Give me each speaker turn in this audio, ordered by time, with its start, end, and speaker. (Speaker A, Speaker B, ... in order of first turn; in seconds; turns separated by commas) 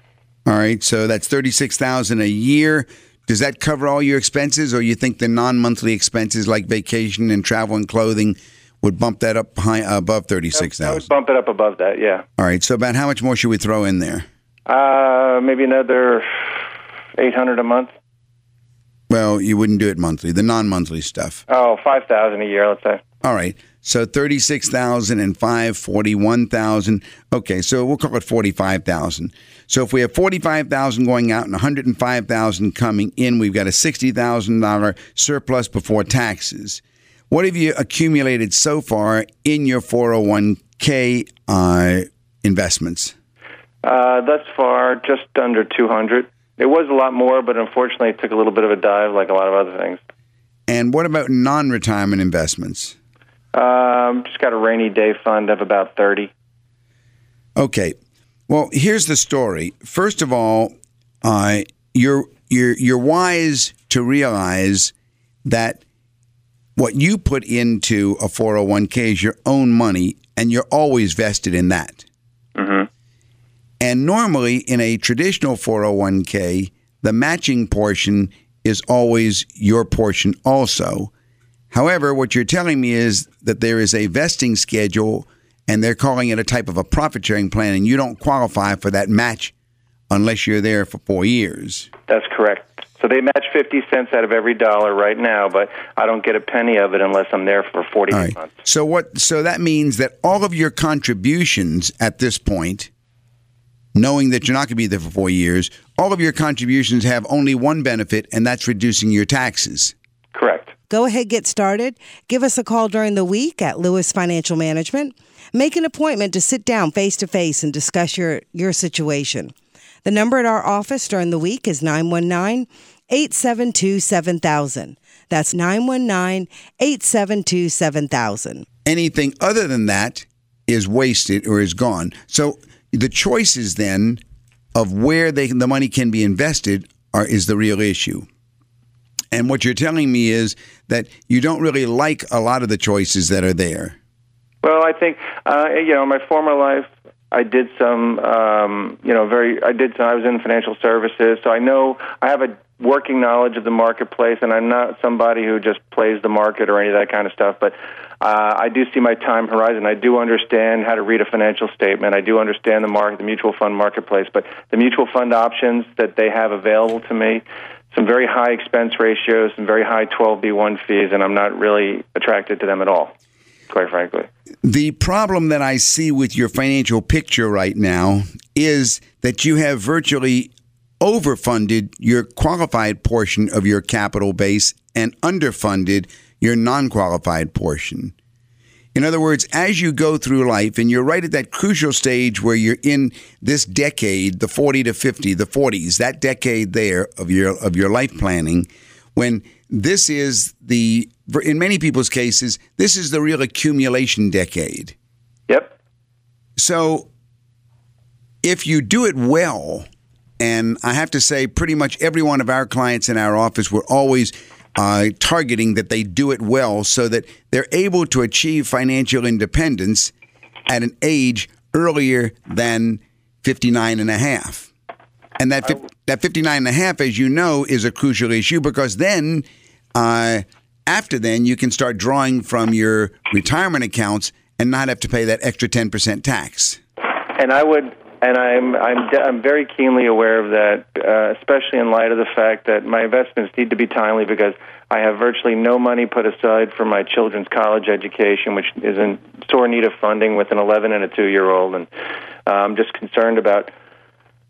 Speaker A: 0.5-11.0, Speaker B: 10.5-12.2, Speaker A: 12.4-14.3, Speaker B: 14.7-16.6, Speaker B: 17.2-17.9, Speaker A: 19.1-21.4, Speaker B: 21.5-23.0, Speaker A: 23.2-43.1, Speaker B: 43.8-50.0, Speaker A: 50.7-52.9, Speaker B: 53.5-56.3, Speaker A: 57.5-58.0, Speaker A: 58.5-64.9, Speaker A: 65.4-65.8, Speaker A: 66.8-72.0, Speaker B: 72.5-72.9, Speaker A: 73.8-81.1, Speaker A: 81.7-89.5, Speaker A: 90.1-91.9, Speaker B: 92.1-98.6, Speaker A: 98.1-102.9, Speaker A: 103.9-109.9, Speaker B: 110.3-110.7, Speaker C: 110.9-128.7, Speaker A: 128.8-134.2, Speaker A: 134.7-138.3, Speaker A: 139.3-143.9, Speaker B: 144.6-173.1, Speaker B: 173.7-174.3, Speaker A: 174.6-188.1, Speaker A: 188.9-204.9, Speaker B: 205.5-205.7, Speaker A: 206.6-207.1, Speaker A: 208.4-209.9, Speaker A: 210.4-220.1, Speaker A: 220.7-224.7, Speaker A: 225.4-236.8, Speaker B: 237.3-251.9, Speaker B: 252.4-253.7